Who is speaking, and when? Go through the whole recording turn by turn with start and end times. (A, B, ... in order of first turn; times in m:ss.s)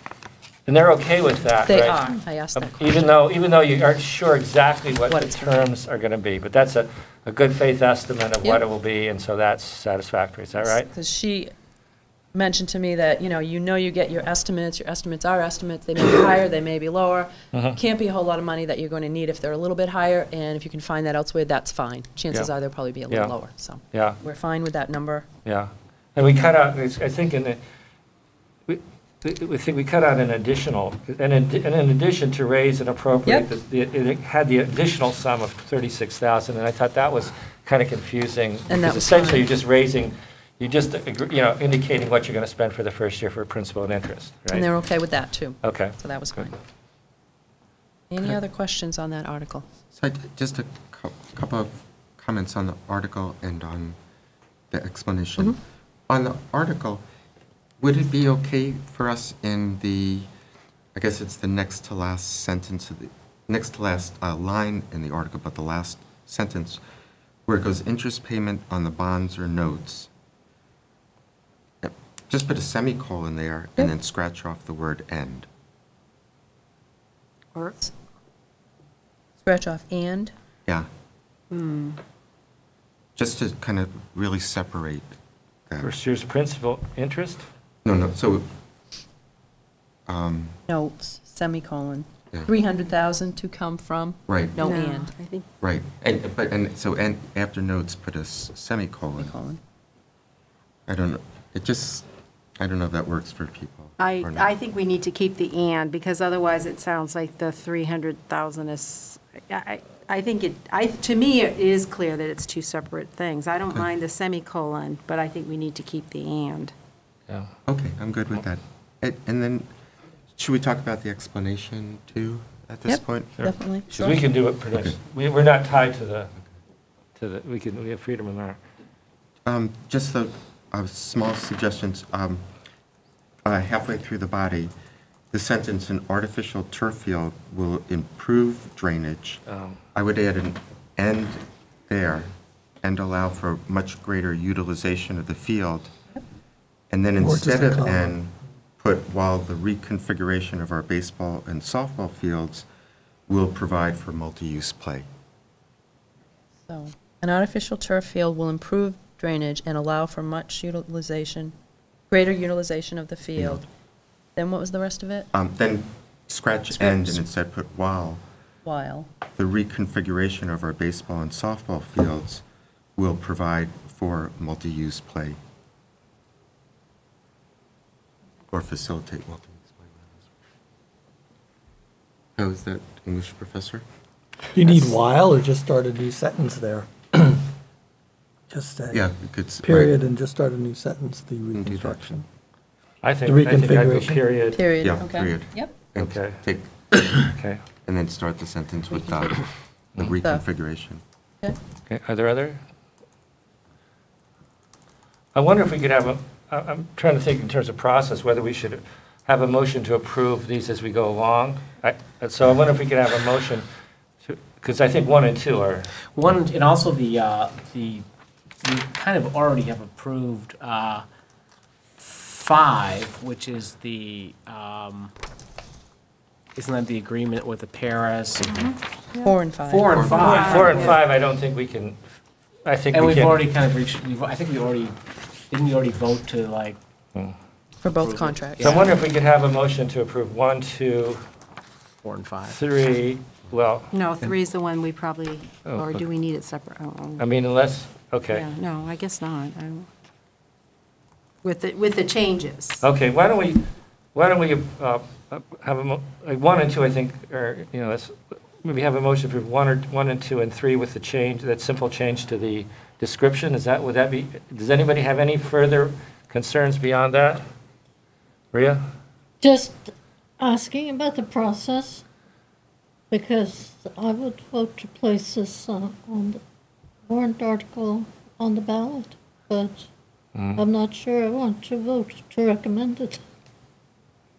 0:00.6-0:02.0 A
0:01.6-0:03.1 B
0:02.5-0:10.9 A
0:05.1-0:05.6 B
0:10.6-0:11.5 B
0:12.3-0:25.2 B
0:17.5-0:17.8 A
0:23.9-0:24.2 A
0:25.4-0:27.6 A
0:28.7-0:44.7 A
0:38.7-0:39.5 B
0:44.5-0:46.6 B
0:45.6-0:46.5 A
0:48.1-0:49.6 B
0:49.9-0:54.0 C
0:54.7-0:55.6 C
0:56.1-0:57.0 C
0:57.8-1:00.3 C
1:00.9-1:06.8 C
1:07.5-1:10.1 C
1:11.8-1:15.5 C
1:19.4-1:20.3 B
1:21.5-1:22.0 D
1:23.2-1:25.1 C
1:25.8-1:27.4 A
1:27.8-1:28.4 C
1:30.1-1:30.6 C
1:30.7-1:35.1 B
1:34.3-1:34.6 C
1:34.6-1:35.4 D
1:35.6-1:39.3 C
1:39.2-1:39.6 B
1:40.9-1:42.0 C
1:42.6-1:44.5 C
1:44.0-1:56.7 D
1:57.7-1:59.7 C
2:00.4-2:03.3 C
2:02.9-2:04.2 B
2:03.4-2:06.3 A
2:07.2-2:08.6 A
2:09.4-2:12.4 C
2:13.4-2:14.7 C
2:15.3-2:19.4 C
2:19.5-2:19.8 A
2:19.9-2:22.3 C
2:22.8-2:25.9 C
2:26.9-2:32.7 C
2:27.2-2:28.1 E
2:33.3-2:35.1 C
2:36.6-2:41.5 B
2:42.1-2:43.6 B
2:43.4-2:43.6 C
2:44.4-2:45.3 B
2:45.3-2:48.2 C
2:46.7-2:47.2 B
2:48.6-2:49.1 B
2:49.4-2:52.4 C
2:53.0-2:55.4 C
2:58.5-3:00.1 C
3:02.4-3:03.8 C
3:04.5-3:07.4 E
3:08.5-3:12.2 E
3:08.9-3:10.0 C
3:11.5-3:12.2 C
3:13.0-3:14.6 A
3:13.2-3:14.3 E
3:14.5-3:15.7 B
3:14.8-3:17.2 C
3:16.0-3:16.4 A
3:17.3-3:17.6 A
3:17.8-3:19.4 C
3:18.9-3:19.4 B
3:20.0-3:21.0 C
3:21.9-3:22.6 A
3:25.3-3:33.6 A
3:34.2-3:35.9 A
3:36.1-3:38.0 F
3:38.6-3:41.0 F
3:42.0-3:45.1 F
3:46.6-3:48.6 F
3:48.4-3:49.3 D
3:49.2-3:50.6 B
3:49.6-3:50.9 F
3:49.9-3:50.2 C
3:50.0-3:51.0 D
3:50.2-3:52.0 A
3:52.6-3:53.4 A
3:52.9-3:55.0 F
3:55.5-3:56.8 F
3:57.8-3:58.8 B
3:58.0-3:59.0 F
3:58.6-4:01.2 A
4:02.0-4:02.6 F
4:02.5-4:03.9 A
4:03.9-4:07.2 D
4:05.6-4:06.0 A
4:07.2-4:08.5 A
4:08.3-4:09.9 D
4:11.4-4:12.8 D
4:12.8-4:27.4 A
4:28.5-4:28.8 A
4:29.4-4:32.0 G
4:33.1-4:36.4 G
4:37.1-4:39.9 G
4:40.3-4:40.6 A
4:40.5-4:43.2 G